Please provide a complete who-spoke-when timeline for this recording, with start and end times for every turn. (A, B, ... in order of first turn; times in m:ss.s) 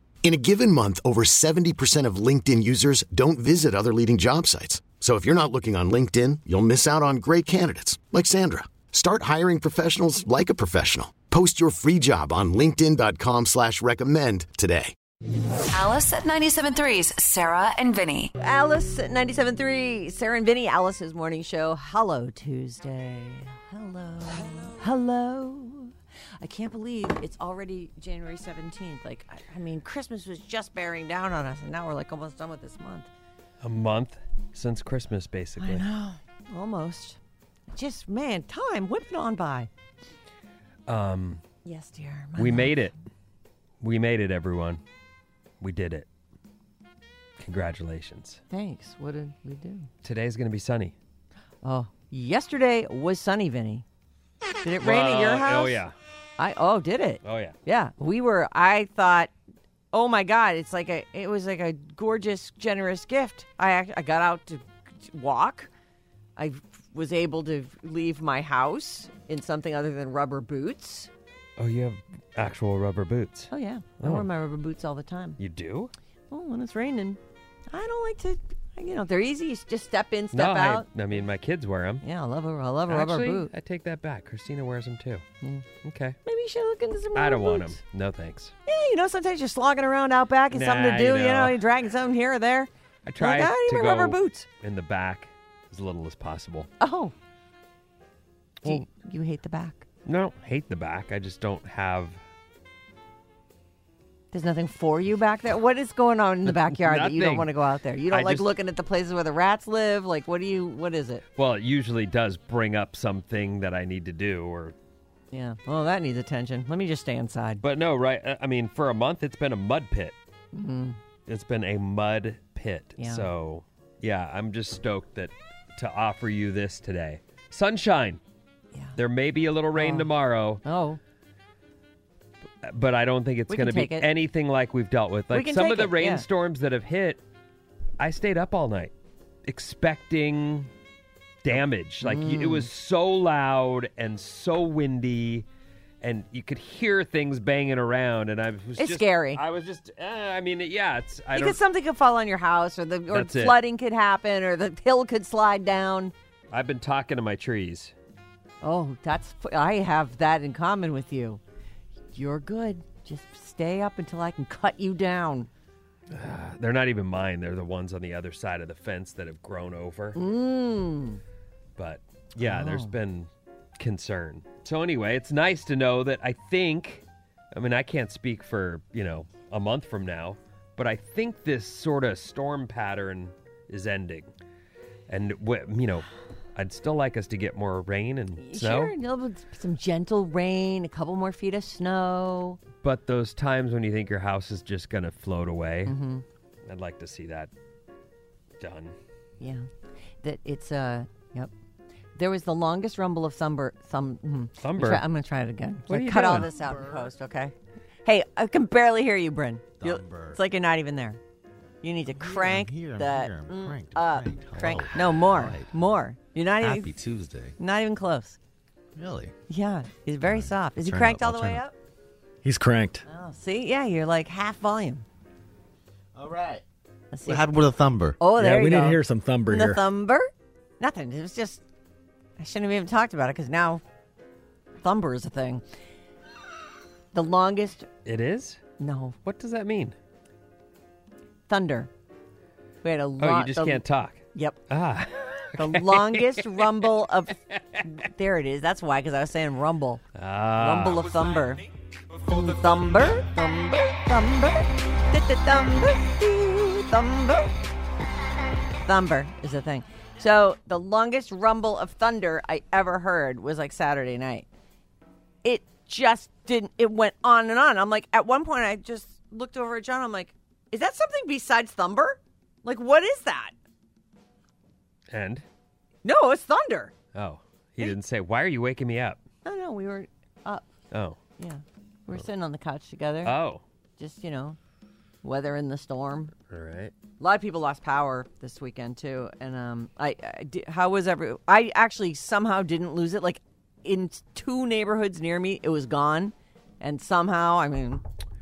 0:00.2-0:14.9 A
0:15.7-0:18.3 B
0:18.4-0:33.1 C
0:33.6-0:35.8 D
0:35.6-0:37.2 C
0:37.7-0:39.7 C
0:40.9-0:41.4 D
0:41.6-0:42.8 C
0:42.4-0:42.9 D
0:43.8-0:44.8 D
0:45.6-0:46.1 D
0:47.4-0:48.4 D
0:48.5-0:49.9 C
0:50.0-0:51.0 D
0:51.6-0:53.8 C
0:54.6-0:55.8 C
0:54.8-0:55.9 D
0:56.4-0:59.3 C
0:57.2-0:57.6 D
0:59.9-1:05.7 C
1:06.4-1:11.1 C
1:11.6-1:14.3 D
1:13.5-1:15.4 C
1:15.4-1:15.9 D
1:16.3-1:17.2 C
1:17.7-1:20.8 C
1:20.3-1:22.0 D
1:22.0-1:23.5 C
1:22.9-1:25.2 D
1:25.8-1:26.2 D
1:26.2-1:27.8 C
1:27.2-1:28.5 D
1:28.7-1:34.5 C
1:30.5-1:31.6 D
1:33.0-1:36.7 D
1:36.8-1:37.1 C
1:38.6-1:39.8 C
1:40.1-1:42.2 D
1:44.3-1:51.2 C
1:46.8-1:47.5 D
1:48.1-1:48.5 D
1:51.4-1:54.8 D
1:55.3-1:57.6 C
1:57.6-2:00.2 D
2:00.5-2:01.0 C
2:01.3-2:08.2 D
2:03.0-2:03.2 C
2:09.0-2:10.6 D
2:09.8-2:10.1 C
2:10.6-2:11.0 C
2:12.6-2:17.2 D
2:13.5-2:14.1 C
2:15.3-2:16.2 C
2:18.0-2:18.9 D
2:19.4-2:20.7 D
2:21.4-2:25.5 D
2:22.0-2:22.7 C
2:26.0-2:31.6 D
2:28.8-2:29.4 C
2:31.3-2:36.1 C
2:33.1-2:33.6 D
2:36.5-2:37.9 D
2:38.6-2:41.4 C
2:42.1-2:45.5 C
2:46.1-2:50.2 D
2:50.2-2:51.2 C
2:51.8-3:04.3 D
2:52.4-2:52.9 C
3:05.1-3:08.9 D
3:08.4-3:12.6 C
3:12.8-3:15.9 D
3:15.8-3:16.2 C
3:16.7-3:17.5 D
3:18.6-3:18.9 D
3:19.4-3:19.7 C
3:20.2-3:21.5 C
3:22.2-3:27.5 C
3:24.6-3:25.0 D
3:25.9-3:26.5 D
3:28.0-3:31.2 C
3:29.8-3:30.4 E
3:31.8-3:36.9 C
3:32.1-3:35.7 E
3:36.6-3:37.6 E
3:37.6-3:38.4 C
3:39.0-3:39.4 E
3:39.5-3:41.8 C
3:40.2-3:41.6 E
3:42.4-3:43.0 F
3:43.1-3:45.0 C
3:46.2-3:46.6 E
3:47.1-3:47.6 C
3:47.2-3:48.2 E
3:48.2-3:51.6 C
3:48.4-3:49.8 F
3:52.4-3:53.8 C
3:54.8-3:55.6 C
3:57.1-3:57.9 C
3:58.0-3:58.6 D
3:58.8-3:59.2 C
3:59.2-3:59.9 D
4:01.5-4:01.9 C
4:02.8-4:03.8 C
4:03.2-4:06.8 D
4:04.3-4:04.6 C
4:05.6-4:10.0 C
4:10.1-4:11.1 D
4:10.6-4:11.6 C
4:12.2-4:17.5 C
4:18.8-4:24.5 C
4:25.4-4:33.5 C
4:35.1-4:35.4 D
4:36.0-4:36.9 C
4:37.1-4:39.2 D
4:39.4-4:40.6 C
4:40.9-4:41.2 D
4:41.4-4:43.4 C
4:43.2-4:43.6 D
4:44.0-4:44.6 C
4:45.2-4:46.3 C
4:46.5-4:46.9 D
4:47.2-4:58.0 C